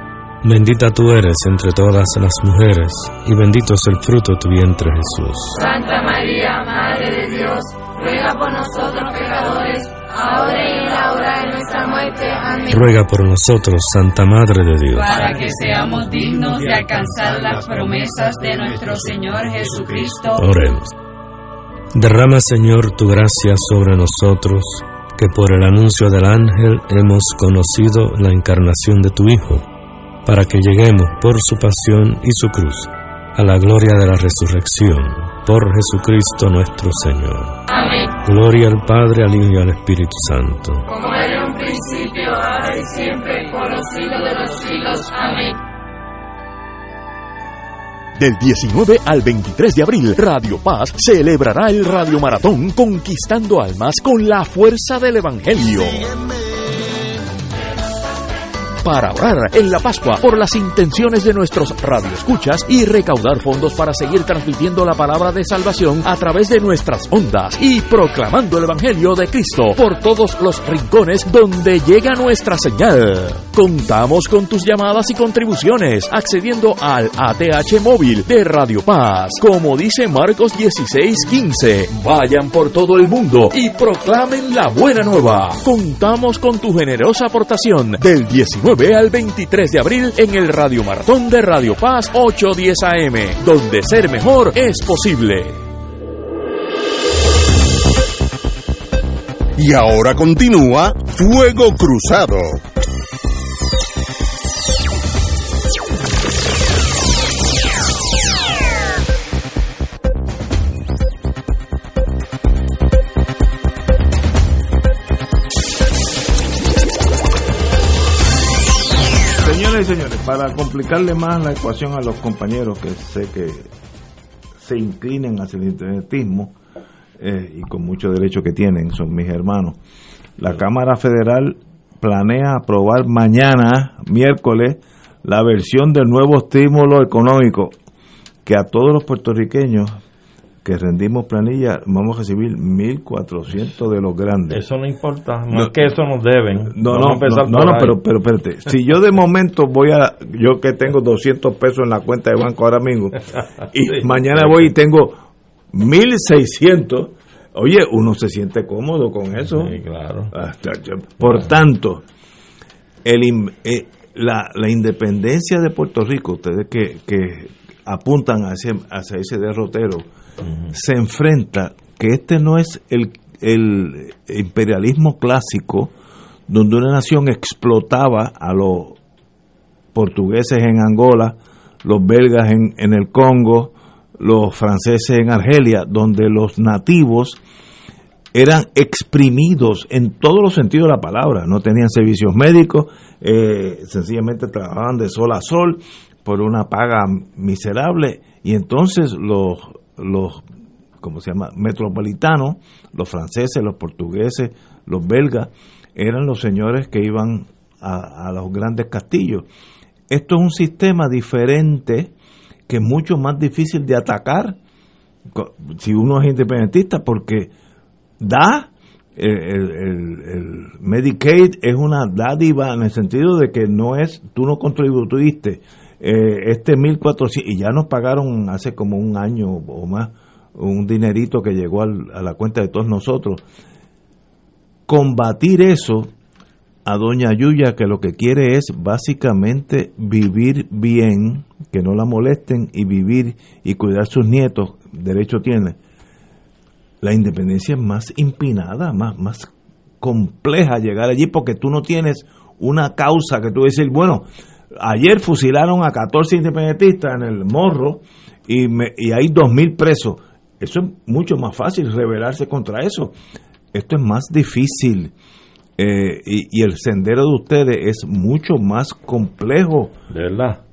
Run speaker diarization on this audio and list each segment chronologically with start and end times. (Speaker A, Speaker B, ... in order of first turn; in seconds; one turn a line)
Speaker A: 0.4-5.6
Speaker B: 5.5-12.9
Speaker A: 12.7-15.2
Speaker B: 14.9-20.4
Speaker A: 20.4-20.9
Speaker A: 21.9-29.7
Speaker A: 30.2-37.6
Speaker B: 37.7-38.1
Speaker A: 38.2-40.9
Speaker B: 40.9-45.6
Speaker C: 48.1-56.1
Speaker C: 58.8-95.6
Speaker D: 99.6-102.6
Speaker E: 119.3-123.7
Speaker E: 124.6-126.5
Speaker E: 127.2-129.8
Speaker E: 130.4-137.7
Speaker E: 138.4-140.0
Speaker E: 140.6-144.6
Speaker F: 144.5-148.0
Speaker E: 146.6-159.8
Speaker F: 154.3-154.7
Speaker F: 159.5-160.3
Speaker E: 160.3-162.0
Speaker E: 163.0-170.1
Speaker E: 170.7-175.9
Speaker E: 176.5-179.0
Speaker E: 179.9-187.4
Speaker E: 188.3-200.4
Speaker E: 201.0-209.4
Speaker E: 210.1-212.1
Speaker E: 212.7-214.6
Speaker E: 215.3-217.5
Speaker E: 218.2-233.4
Speaker E: 234.9-236.1
Speaker E: 236.8-245.8
Speaker E: 247.0-249.5
Speaker E: 250.0-263.1
Speaker E: 263.7-265.1
Speaker E: 265.8-269.9
Speaker F: 270.1-270.6